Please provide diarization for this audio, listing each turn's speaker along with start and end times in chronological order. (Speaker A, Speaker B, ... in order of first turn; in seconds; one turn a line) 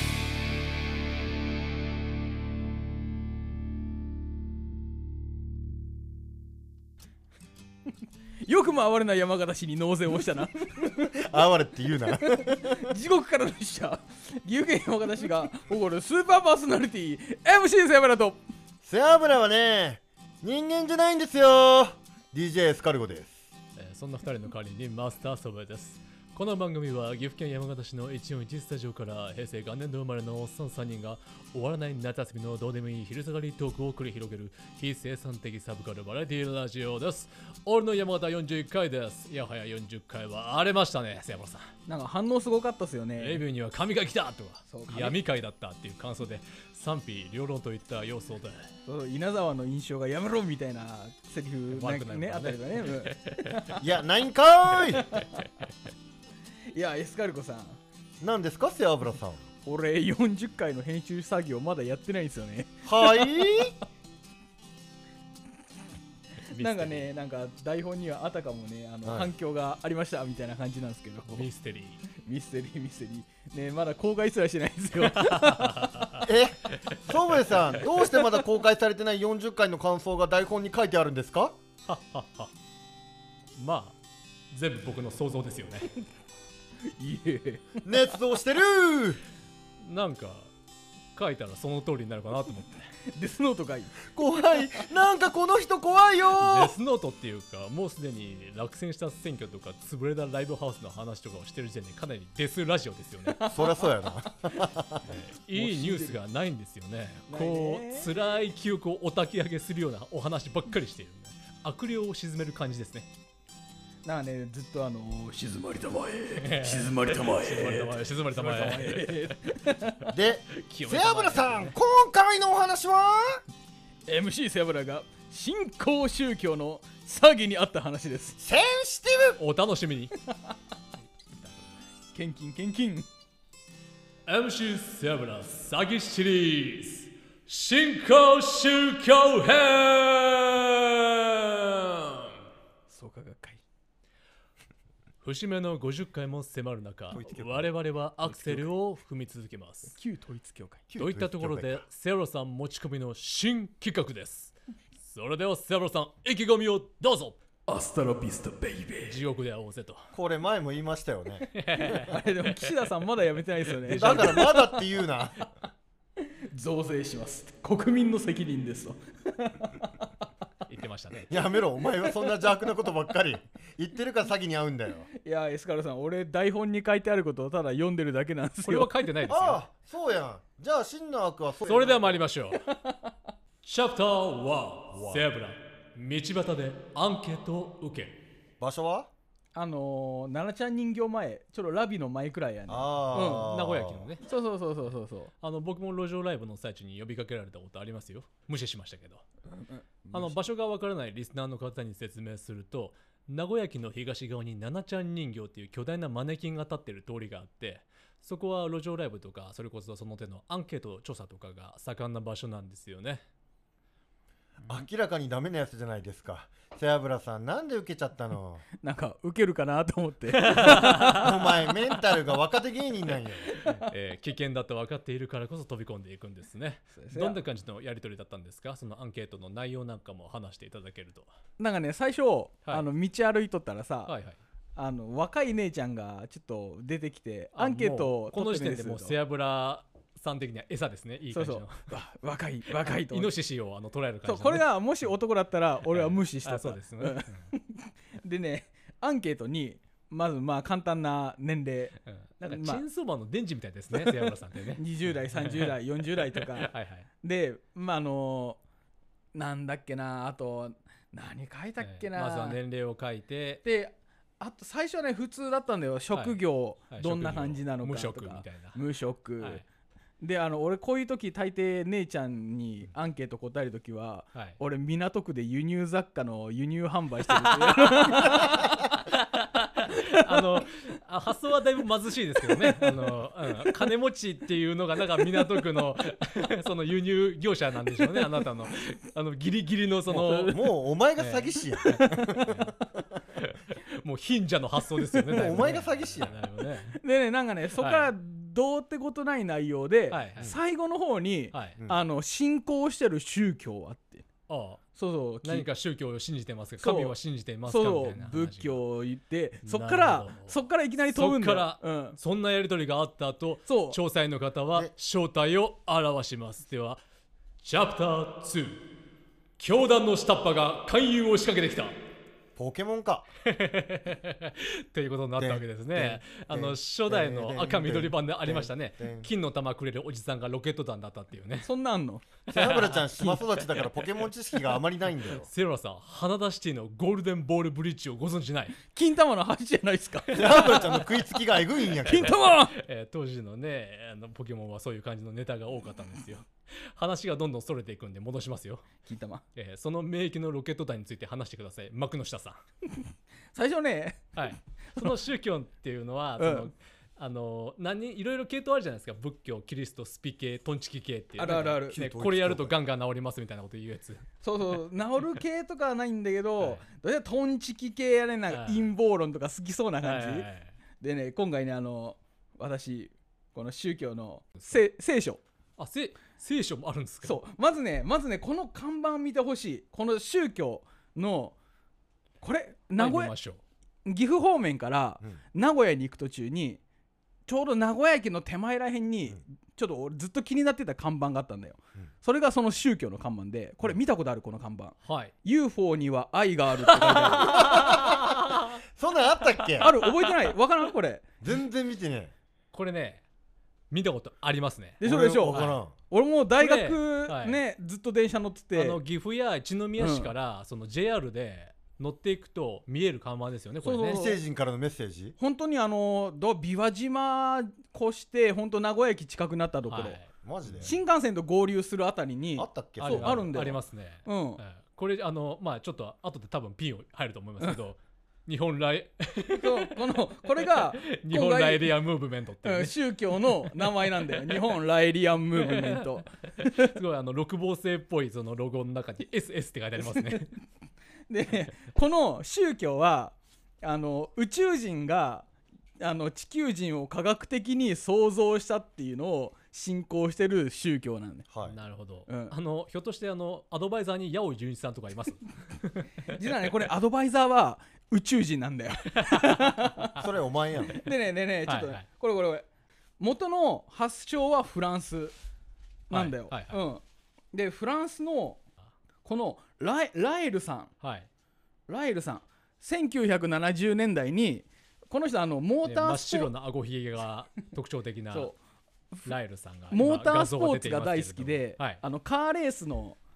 Speaker A: 8.5-11.3
Speaker B: 11.1-12.9
Speaker A: 12.2-18.4
Speaker B: 18.8-23.5
Speaker C: 23.8-41.7
Speaker A: 41.9-43.4
Speaker C: 43.2-48.7
Speaker A: 44.7-45.2
Speaker A: 48.9-53.8
Speaker C: 51.7-53.1
Speaker B: 53.8-55.2
Speaker A: 56.7-57.8
Speaker B: 58.2-59.4
Speaker A: 59.6-63.7
Speaker B: 62.9-63.7
Speaker A: 66.5-71.5
Speaker C: 66.5-67.1
Speaker B: 69.0-69.3
Speaker C: 71.3-72.0
Speaker A: 72.2-76.2
Speaker C: 75.0-76.3
Speaker B: 76.2-81.6
Speaker C: 81.9-82.5
Speaker C: 83.6-84.0
Speaker C: 84.5-86.0
Speaker A: 87.0-87.8
Speaker B: 87.8-89.2
Speaker C: 89.8-90.5
Speaker C: 91.2-92.9
Speaker A: 93.1-94.0
Speaker B: 94.1-96.8
Speaker C: 96.3-103.4
Speaker A: 103.3-104.3
Speaker B: 103.5-105.0
Speaker C: 105.0-113.1
Speaker A: 105.5-106.2
Speaker A: 107.3-108.1
Speaker A: 114.1-120.1
Speaker C: 116.4-119.3
Speaker B: 120.1-123.4
Speaker C: 120.6-121.8
Speaker A: 124.1-128.4
Speaker B: 128.4-129.4
Speaker C: 129.4-130.1
Speaker C: 131.3-131.8
Speaker A: 132.2-133.1
Speaker C: 134.3-142.3
Speaker A: 142.9-143.6
Speaker C: 145.2-149.9
Speaker B: 147.1-147.7
Speaker B: 148.3-148.7
Speaker A: 149.9-150.8
Speaker B: 150.9-151.8
Speaker C: 151.0-157.4
Speaker A: 157.7-159.2
Speaker C: 159.1-160.1
Speaker B: 160.1-161.5
Speaker C: 161.5-162.6
Speaker A: 161.8-164.6
Speaker C: 163.7-164.7
Speaker B: 163.9-165.4
Speaker A: 166.5-170.1
Speaker C: 170.7-171.3
Speaker B: 171.3-175.1
Speaker A: 175.1-178.9
Speaker C: 178.7-179.6
Speaker B: 179.3-182.2
Speaker C: 181.6-182.6
Speaker A: 182.6-183.1
Speaker C: 183.6-188.2
Speaker B: 188.6-189.1
Speaker A: 189.6-193.5
Speaker B: 192.7-194.1
Speaker C: 193.1-194.2
Speaker A: 194.2-195.3
Speaker C: 195.4-199.2
Speaker A: 199.5-200.4
Speaker C: 200.1-213.2
Speaker B: 214.7-218.7
Speaker A: 218.8-221.6
Speaker C: 220.3-221.3
Speaker B: 221.0-223.5
Speaker A: 223.5-223.9
Speaker C: 223.6-231.3
Speaker A: 227.0-227.4
Speaker A: 231.6-234.1
Speaker C: 234.1-234.4
Speaker A: 234.8-239.2
Speaker C: 237.6-241.8
Speaker A: 241.3-243.3
Speaker C: 242.8-244.7
Speaker A: 244.2-252.8
Speaker C: 245.9-247.5
Speaker C: 252.1-257.1
Speaker A: 254.8-258.6
Speaker A: 259.4-262.6
Speaker C: 261.8-263.6
Speaker A: 263.6-269.6
Speaker C: 266.1-266.4
Speaker C: 266.9-268.8
Speaker A: 270.2-278.8
Speaker C: 274.3-274.6
Speaker C: 277.3-290.6
Speaker A: 279.9-280.4
Speaker A: 290.1-290.5
Speaker B: 290.4-292.6
Speaker C: 291.2-292.7
Speaker A: 291.9-292.3
Speaker C: 293.4-297.0
Speaker A: 295.1-295.5
Speaker B: 295.3-296.4
Speaker A: 296.9-304.3
Speaker C: 297.8-298.1
Speaker C: 300.1-300.5
Speaker C: 301.5-301.8
Speaker C: 304.5-304.8
Speaker A: 304.9-305.7
Speaker C: 305.4-308.8
Speaker A: 306.8-307.1
Speaker A: 307.7-312.2
Speaker C: 309.6-317.0
Speaker A: 313.7-314.0
Speaker C: 317.6-318.9
Speaker C: 319.6-321.9
Speaker B: 322.6-323.3
Speaker C: 323.4-331.7
Speaker B: 325.4-329.3
Speaker A: 331.6-332.3
Speaker B: 332.5-335.5
Speaker C: 332.5-333.0
Speaker C: 335.3-338.8
Speaker A: 338.9-341.0
Speaker B: 340.3-342.4
Speaker A: 342.0-342.8
Speaker C: 342.3-349.0
Speaker A: 349.1-349.4
Speaker C: 349.6-352.6
Speaker A: 353.6-354.3
Speaker C: 354.4-364.3
Speaker A: 356.4-356.7
Speaker A: 361.4-362.0
Speaker B: 361.9-362.8
Speaker A: 364.4-370.5
Speaker C: 368.5-368.9
Speaker C: 370.0-370.7
Speaker A: 371.0-375.4
Speaker C: 375.8-377.4
Speaker A: 377.2-381.6
Speaker A: 382.4-383.3
Speaker C: 383.0-383.6
Speaker A: 384.1-386.8
Speaker A: 387.5-398.0
Speaker C: 395.0-395.3
Speaker C: 396.9-398.7
Speaker B: 397.6-398.2
Speaker B: 398.9-399.9
Speaker C: 399.8-400.1
Speaker A: 399.8-401.3
Speaker B: 401.4-402.3
Speaker C: 402.7-403.2
Speaker C: 403.9-405.8
Speaker A: 405.0-409.0
Speaker B: 405.0-405.9
Speaker C: 406.6-407.6
Speaker C: 408.8-414.2
Speaker A: 410.0-410.3
Speaker A: 413.8-414.4
Speaker B: 414.1-415.4
Speaker A: 415.4-420.2
Speaker C: 419.9-420.9
Speaker B: 420.4-420.9
Speaker A: 420.8-424.6
Speaker B: 422.6-423.5
Speaker C: 423.0-430.2
Speaker A: 429.5-431.9
Speaker C: 430.7-434.7
Speaker A: 432.6-436.9
Speaker C: 435.6-440.5
Speaker A: 440.0-440.4
Speaker A: 441.3-445.5
Speaker A: 446.0-451.5
Speaker C: 451.7-456.1
Speaker A: 452.3-452.5
Speaker A: 456.3-460.2
Speaker C: 459.3-459.6
Speaker B: 460.2-461.0
Speaker A: 460.9-462.7
Speaker C: 461.7-462.0
Speaker A: 463.2-465.3
Speaker A: 466.1-467.0
Speaker C: 466.1-466.8
Speaker A: 467.5-468.6
Speaker A: 469.2-470.9
Speaker C: 471.0-471.3
Speaker A: 471.9-476.5
Speaker C: 475.9-478.5
Speaker A: 478.3-478.6
Speaker C: 479.3-482.0
Speaker A: 479.9-483.2